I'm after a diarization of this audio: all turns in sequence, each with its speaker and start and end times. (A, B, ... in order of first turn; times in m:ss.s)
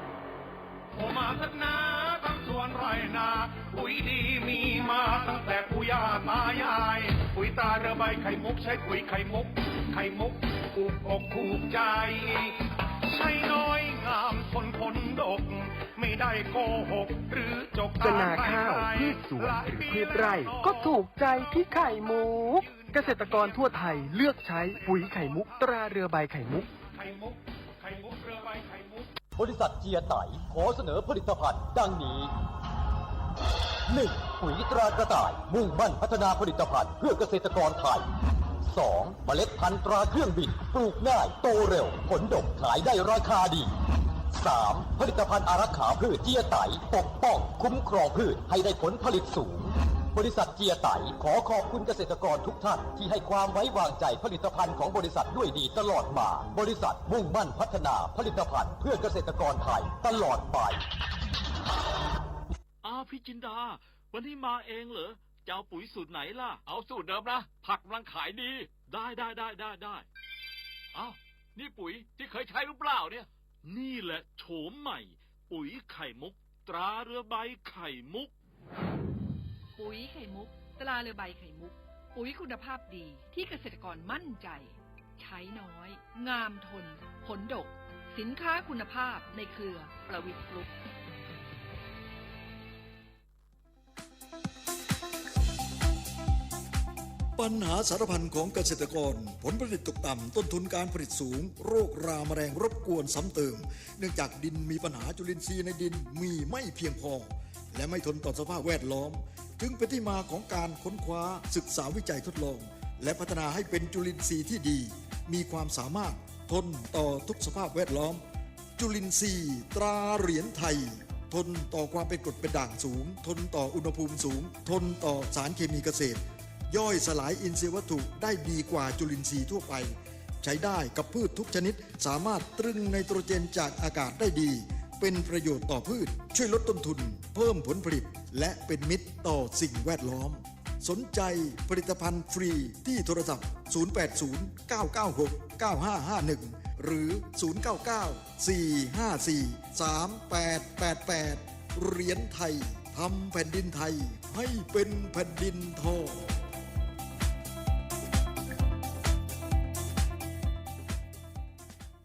0:00.9-0:25.9 A
0:18.0-0:26.7 B
0:26.9-0:29.1 A
0:29.3-0:32.3 C
0:33.9-0:38.1 C
0:38.6-0:43.7 C
0:44.3-1:00.8 C
1:02.8-1:10.0 D
1:10.9-1:18.3 D
1:19.8-1:30.7 E
1:37.4-1:58.2 F
1:58.8-2:36.2 F